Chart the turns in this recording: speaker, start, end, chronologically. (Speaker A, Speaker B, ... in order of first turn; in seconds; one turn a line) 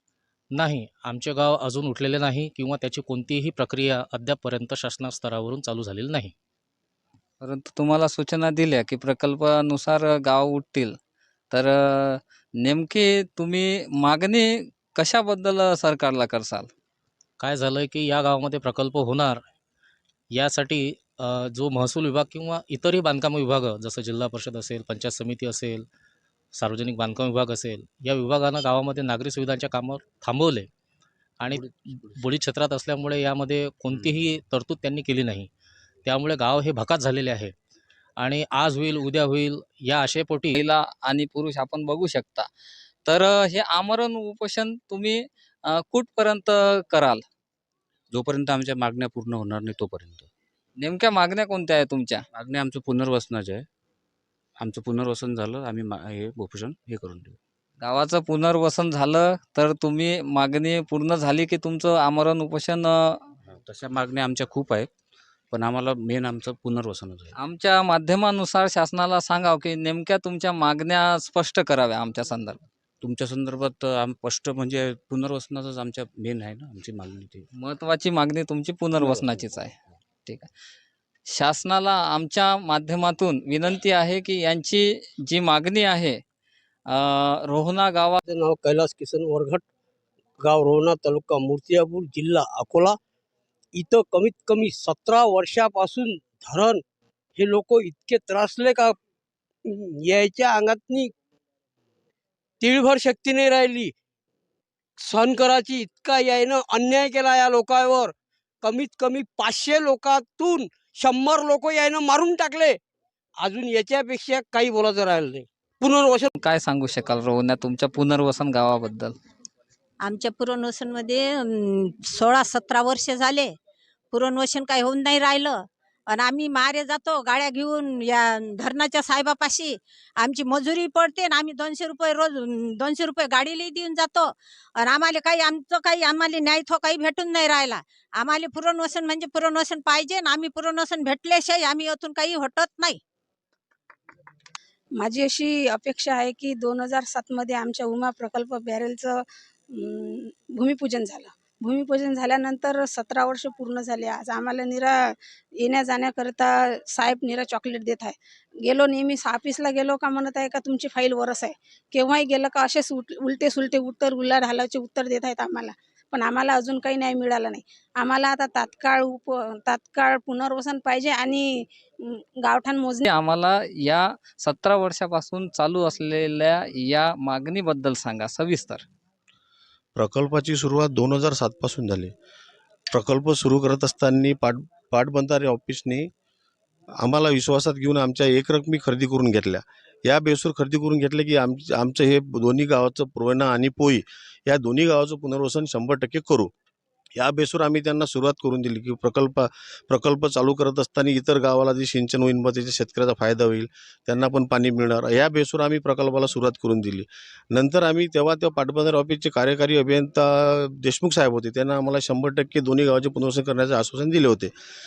Speaker A: 0.5-6.3
Speaker B: 7.4-11.0
Speaker B: 11.5-16.7
Speaker A: 17.4-19.4
Speaker A: 20.3-25.9
Speaker A: 26.6-30.7
Speaker A: 31.4-35.5
Speaker A: 36.1-37.5
Speaker A: 38.2-40.6
Speaker B: 40.5-42.5
Speaker B: 43.1-47.2
Speaker C: 48.1-50.3
Speaker B: 50.8-52.2
Speaker C: 52.3-53.7
Speaker C: 54.6-57.4
Speaker B: 57.8-63.2
Speaker C: 63.5-64.9
Speaker C: 65.5-67.3
Speaker B: 67.3-72.6
Speaker C: 73.0-77.5
Speaker B: 77.5-79.7
Speaker C: 79.1-79.4
Speaker B: 81.3-86.2
Speaker B: 86.9-88.2
Speaker D: 88.2-89.6
Speaker D: 90.4-93.0
Speaker D: 93.8-96.8
Speaker D: 97.4-99.0
Speaker D: 99.7-101.1
Speaker D: 102.6-103.9
Speaker D: 105.0-112.8
Speaker D: 113.4-116.3
Speaker B: 116.4-119.1
Speaker E: 120.0-123.5
Speaker E: 124.1-143.0
Speaker F: 145.0-173.1
Speaker B: 173.1-178.8
Speaker G: 180.0-182.1
Speaker G: 182.9-186.1
Speaker G: 187.0-196.5
Speaker G: 197.2-214.5